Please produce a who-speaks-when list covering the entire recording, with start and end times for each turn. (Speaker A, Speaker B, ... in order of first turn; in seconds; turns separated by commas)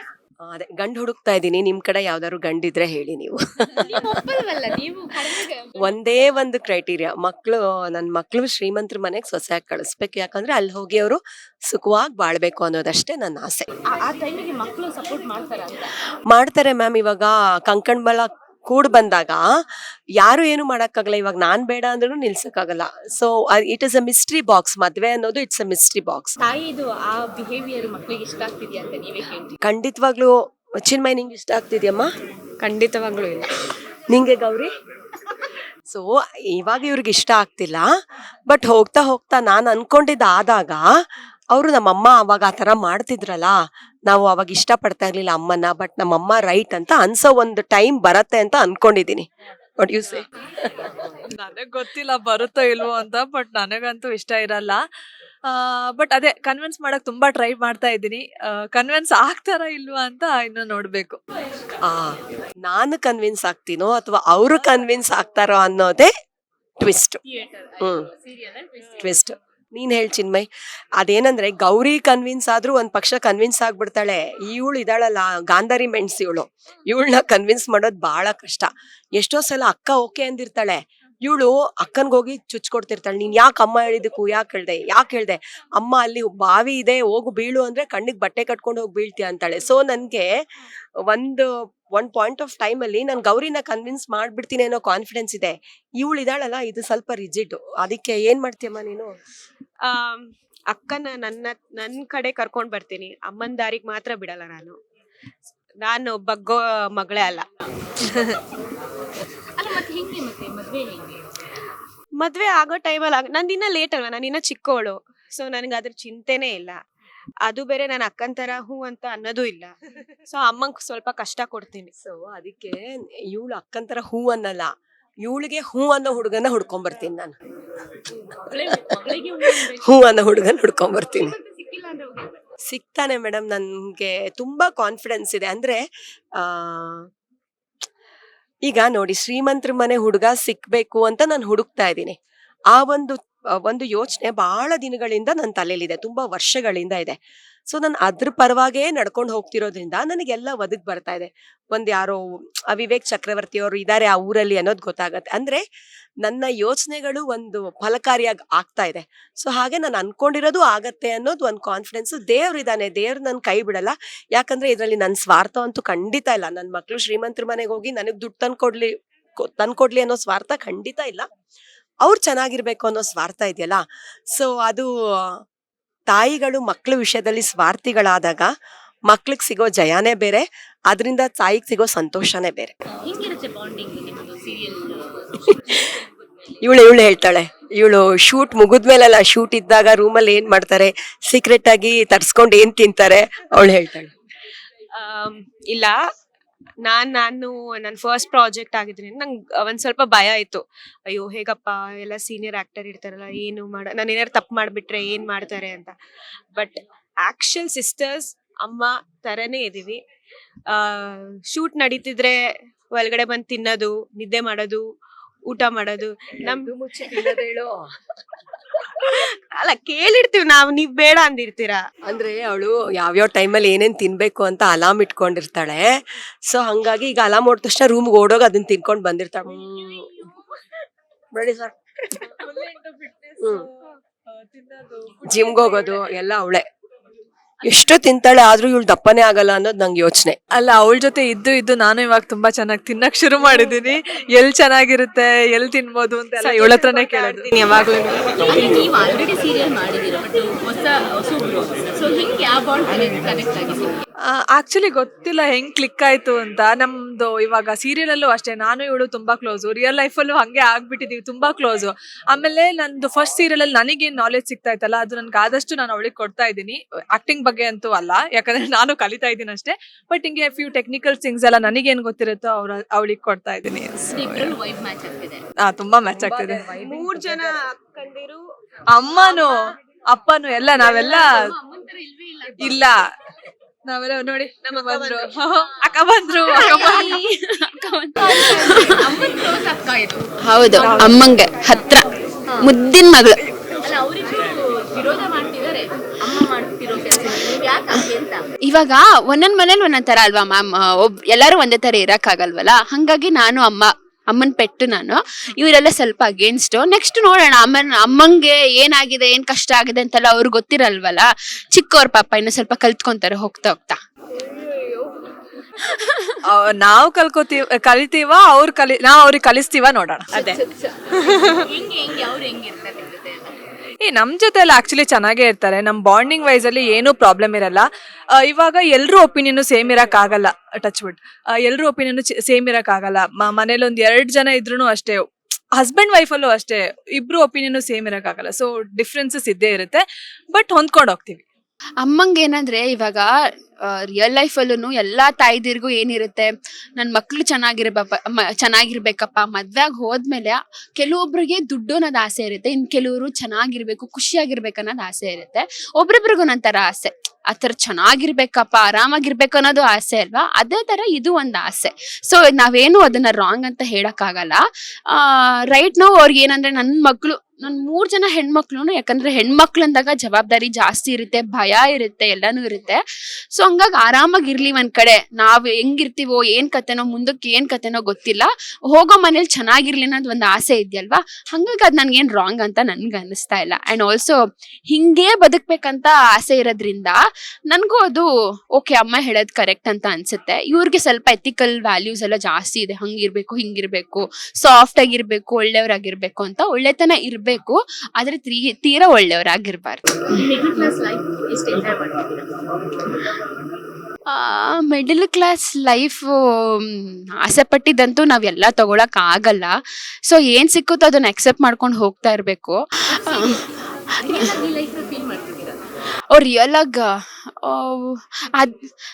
Speaker A: 0.5-4.1, Speaker B: 3.8-5.7, Speaker A: 5.8-13.7, Speaker B: 13.8-15.9, Speaker A: 16.3-19.4, Speaker A: 20.2-26.4, Speaker B: 26.4-29.6, Speaker A: 29.6-30.3, Speaker A: 30.8-32.1, Speaker C: 32.6-33.5, Speaker A: 34.1-34.7, Speaker A: 35.9-37.9, Speaker A: 38.5-40.8, Speaker A: 41.5-49.3, Speaker A: 49.8-51.0, Speaker D: 51.3-54.8, Speaker D: 55.5-61.2, Speaker A: 61.8-66.1, Speaker A: 66.8-67.2, Speaker B: 67.3-69.0, Speaker A: 67.8-68.1, Speaker A: 69.0-90.3, Speaker A: 91.1-99.1, Speaker C: 99.8-104.8, Speaker C: 105.8-107.5, Speaker B: 109.6-111.2, Speaker C: 112.2-116.8, Speaker C: 117.4-119.7, Speaker C: 120.3-121.9, Speaker A: 122.0-124.7, Speaker A: 125.2-127.3, Speaker B: 128.5-130.1, Speaker A: 129.4-131.3, Speaker B: 131.2-132.4, Speaker A: 132.7-135.8, Speaker A: 136.4-137.1, Speaker A: 138.7-142.2, Speaker A: 142.7-147.2, Speaker A: 147.7-155.6, Speaker A: 156.2-171.2, Speaker A: 172.0-173.8, Speaker A: 174.3-175.4, Speaker A: 176.1-178.5, Speaker A: 179.1-182.7, Speaker B: 182.9-186.1, Speaker A: 186.6-194.1, Speaker C: 195.0-196.0, Speaker C: 196.8-206.0, Speaker C: 206.6-210.0, Speaker C: 210.7-212.3, Speaker C: 212.9-214.8, Speaker C: 215.5-216.7, Speaker A: 216.4-217.8, Speaker C: 219.0-221.8, Speaker A: 222.1-230.1, Speaker A: 231.3-232.3, Speaker D: 232.3-233.7, Speaker D: 234.3-236.0, Speaker A: 235.3-236.7, Speaker A: 237.6-240.4, Speaker D: 240.5-247.5, Speaker C: 246.4-248.8, Speaker B: 248.5-254.0, Speaker D: 254.3-274.6, Speaker B: 274.1-275.4, Speaker D: 275.6-276.7, Speaker C: 276.2-278.4, Speaker D: 278.9-281.5, Speaker C: 279.1-279.5, Speaker B: 280.9-282.8, Speaker D: 282.6-283.0, Speaker D: 283.9-287.2, Speaker C: 284.6-285.7, Speaker E: 286.5-289.1, Speaker B: 288.2-290.2, Speaker E: 290.4-292.0, Speaker B: 290.8-291.1, Speaker D: 290.8-291.2, Speaker E: 292.6-293.4, Speaker B: 293.8-298.4, Speaker E: 298.7-314.0, Speaker E: 316.0-316.4, Speaker D: 316.5-320.4, Speaker C: 320.4-321.5, Speaker B: 321.3-323.6, Speaker D: 324.0-327.9, Speaker D: 328.4-340.0, Speaker D: 340.5-341.4, Speaker E: 342.0-343.3, Speaker E: 343.9-373.0, Speaker E: 373.6-384.4, Speaker E: 384.9-387.1, Speaker E: 387.7-400.1, Speaker B: 400.3-402.5, Speaker E: 404.3-409.7, Speaker E: 410.3-413.6, Speaker B: 413.2-413.6, Speaker E: 414.2-414.6, Speaker B: 414.2-415.8, Speaker E: 416.3-417.0, Speaker E: 417.6-418.7